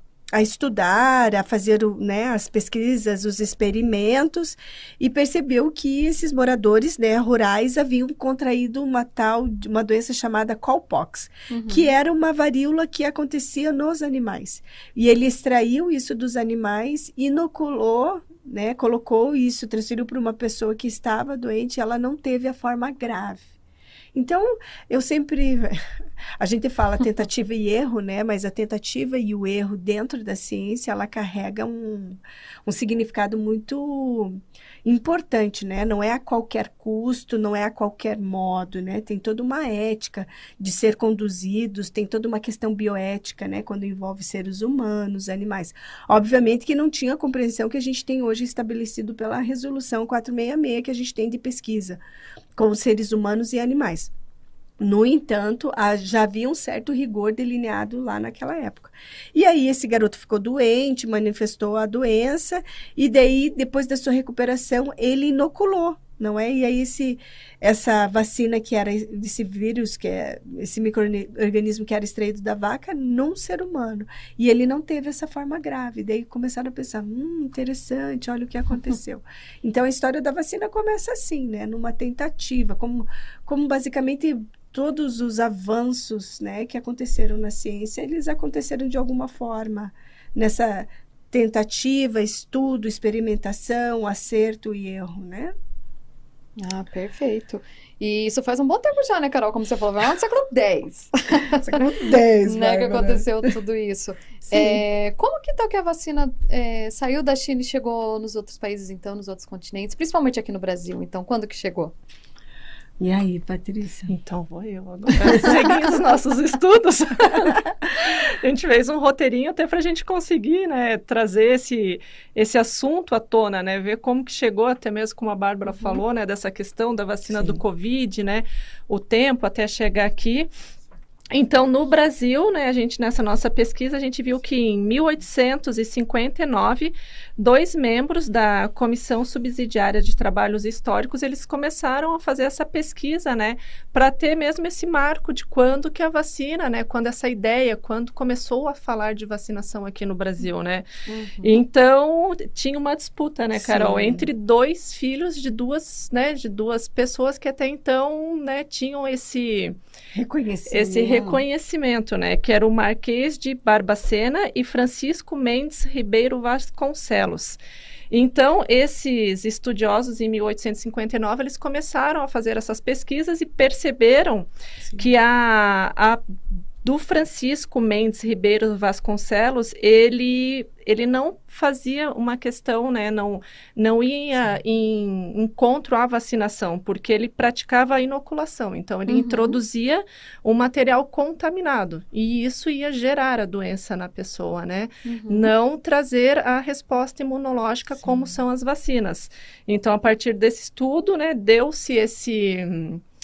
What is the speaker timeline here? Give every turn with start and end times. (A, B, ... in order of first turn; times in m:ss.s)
0:00.3-0:23.5 A
0:11.5-0:11.9 B
0:24.1-0:25.8 A
0:26.4-0:52.0 A
0:52.6-0:54.1 A
0:54.8-1:35.5 A
1:36.6-1:41.8 B
1:41.6-1:43.3 A
1:42.4-1:51.9 B
1:44.5-1:44.8 A
1:53.0-1:54.2 A
1:54.1-2:10.5 C
1:55.2-1:55.7 A
2:07.3-2:07.6 A
2:11.3-2:30.9 C
2:31.1-2:31.6 B
2:31.4-2:39.8 C
2:33.5-2:34.3 A
2:40.1-2:41.4 A
2:40.7-2:47.6 C
2:48.1-2:56.2 C
2:56.8-3:23.0 C
3:09.1-3:09.6 B
3:15.0-3:15.5 B
3:18.0-3:18.4 A